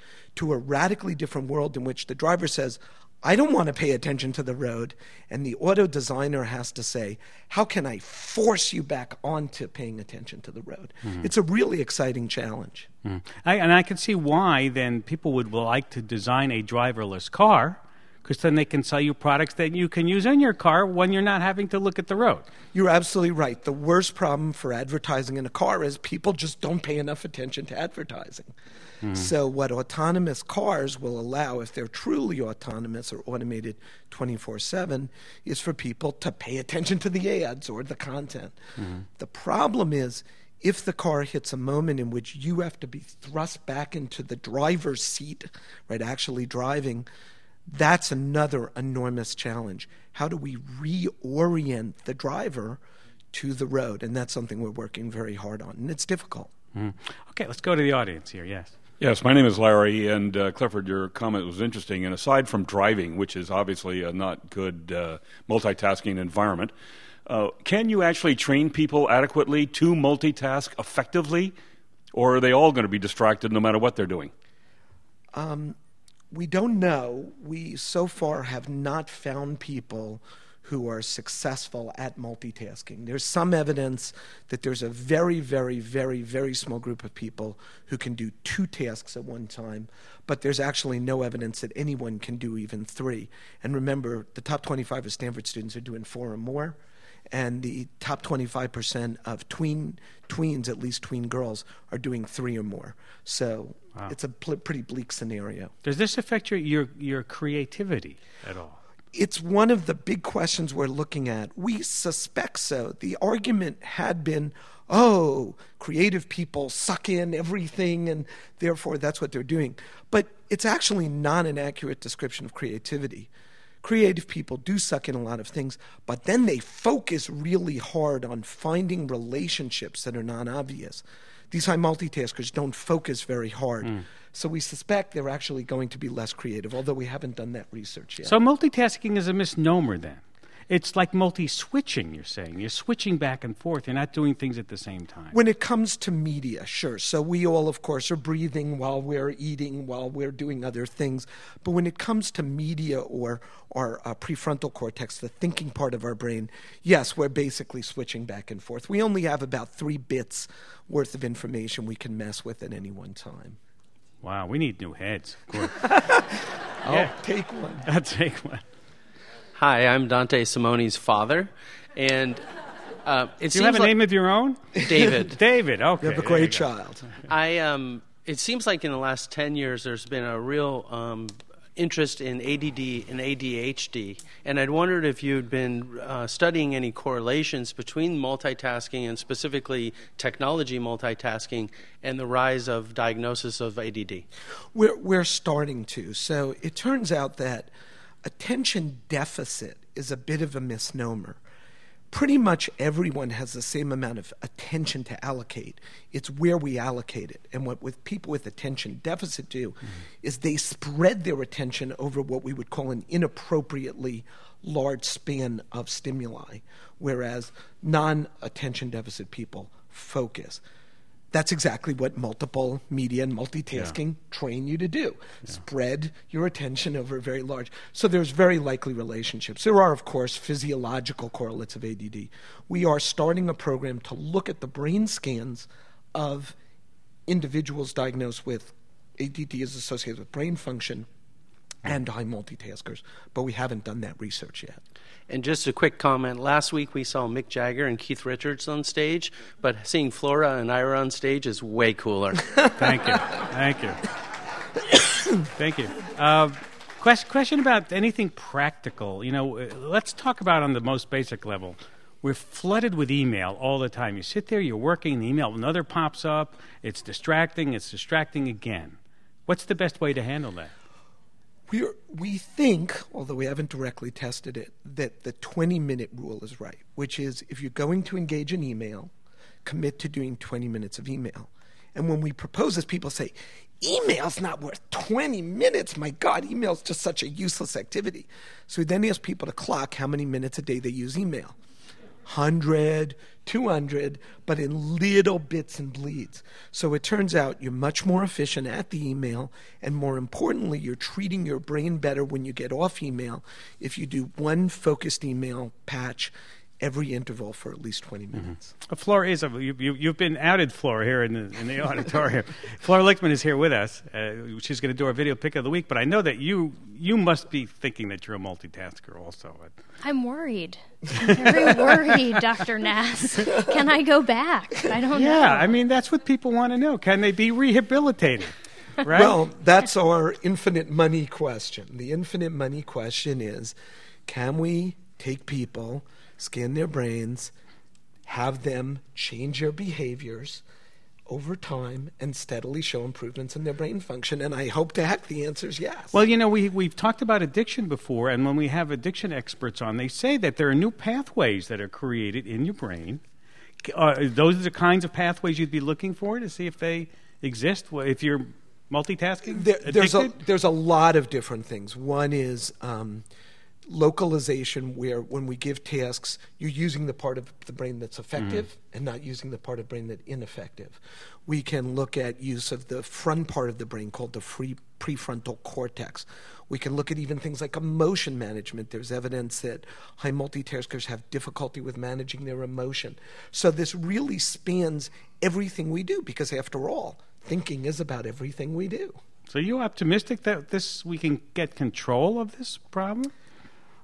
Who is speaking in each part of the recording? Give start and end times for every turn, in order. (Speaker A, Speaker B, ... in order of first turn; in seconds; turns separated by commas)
Speaker A: 0.4-12.9, Speaker B: 13.1-22.5, Speaker A: 22.7-28.5, Speaker B: 29.0-29.3, Speaker A: 29.1-38.6, Speaker B: 38.8-39.0, Speaker A: 39.2-47.1, Speaker A: 47.7-52.8, Speaker A: 53.3-56.5, Speaker B: 56.8-58.7, Speaker C: 59.0-66.7, Speaker C: 67.3-71.5, Speaker C: 72.1-74.3, Speaker A: 75.3-75.8, Speaker A: 76.3-96.8, Speaker A: 97.3-105.7, Speaker B: 105.8-108.8, Speaker A: 109.1-123.3, Speaker A: 123.8-138.3, Speaker B: 138.2-145.3, Speaker A: 145.3-163.6, Speaker B: 164.2-165.9, Speaker A: 165.6-167.9, Speaker B: 166.9-167.1, Speaker B: 167.8-168.6, Speaker D: 169.6-172.4, Speaker D: 173.1-173.9, Speaker B: 173.5-176.7, Speaker D: 174.8-175.4, Speaker A: 176.0-177.1, Speaker D: 177.3-194.2, Speaker A: 194.7-197.7, Speaker A: 198.2-201.4, Speaker A: 202.1-220.6, Speaker A: 221.3-236.6, Speaker A: 237.3-241.1, Speaker A: 241.8-244.8, Speaker D: 245.3-252.5, Speaker B: 252.8-254.0, Speaker B: 255.5-270.7, Speaker A: 271.7-279.1, Speaker A: 279.6-291.6, Speaker A: 292.2-308.7, Speaker B: 308.4-319.8, Speaker E: 320.0-325.7, Speaker B: 321.3-322.1, Speaker B: 325.1-329.4, Speaker A: 329.1-333.8, Speaker A: 334.3-337.5, Speaker A: 338.3-340.6, Speaker A: 341.3-346.2, Speaker B: 346.1-353.2, Speaker B: 353.8-360.3, Speaker A: 359.5-363.2, Speaker A: 363.9-389.2, Speaker B: 389.5-393.3